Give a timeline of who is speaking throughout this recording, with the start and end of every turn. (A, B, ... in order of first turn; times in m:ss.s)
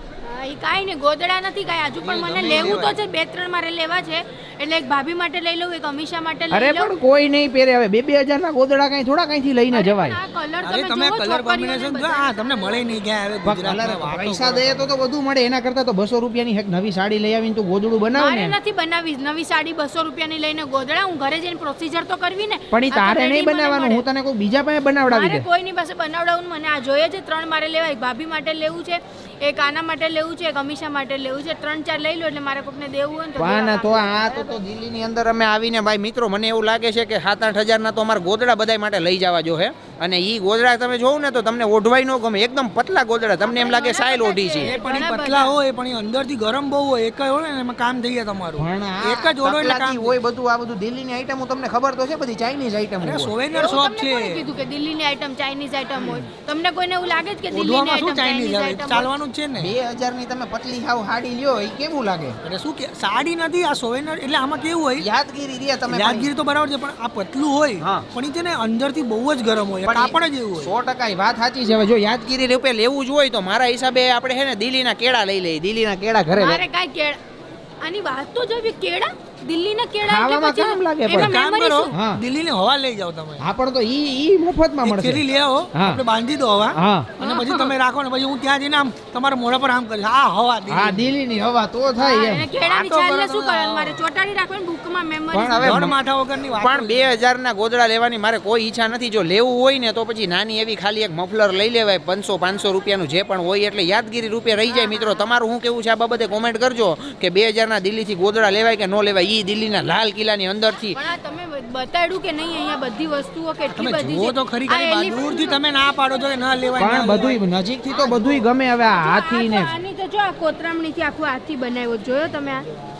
0:00.2-0:06.9 A
0:02.0-0:03.0 B
0:02.4-0:02.8 C
0:06.5-0:10.2 C
0:09.7-0:13.0 A
0:10.6-0:14.9 B
0:13.4-0:18.6 C
0:18.1-0:24.0 A
0:22.7-0:25.4 C
0:25.1-0:34.6 A
0:33.4-0:44.7 C
0:43.4-0:45.6 A
0:44.6-0:50.1 B
0:48.6-0:53.3 C
0:53.0-0:54.4 B
0:53.5-0:59.1 A
0:57.5-0:59.7 B
0:59.6-1:02.4 C
1:02.4-1:05.0 B
1:05.0-1:06.3 C
1:05.9-1:10.7 B
1:07.8-1:08.0 C
1:09.8-1:16.6 C
1:16.3-1:17.2 A
1:17.8-1:21.9 A
1:20.0-1:21.4 C
1:21.1-1:23.4 B
1:21.9-1:22.2 C
1:23.4-1:25.2 C
1:24.8-1:31.1 B
1:25.7-1:26.0 C
1:26.8-1:27.1 C
1:27.2-1:27.7 A
1:30.7-1:32.5 C
1:32.0-1:35.8 A
1:32.5-1:34.0 B
1:35.3-1:35.9 C
1:35.6-1:37.1 B
1:36.6-1:51.0 C
1:44.7-1:45.2 A
1:50.9-1:55.6 A
1:53.7-1:57.4 B
1:56.8-1:59.7 C
1:56.8-1:57.1 A
1:57.9-2:02.6 A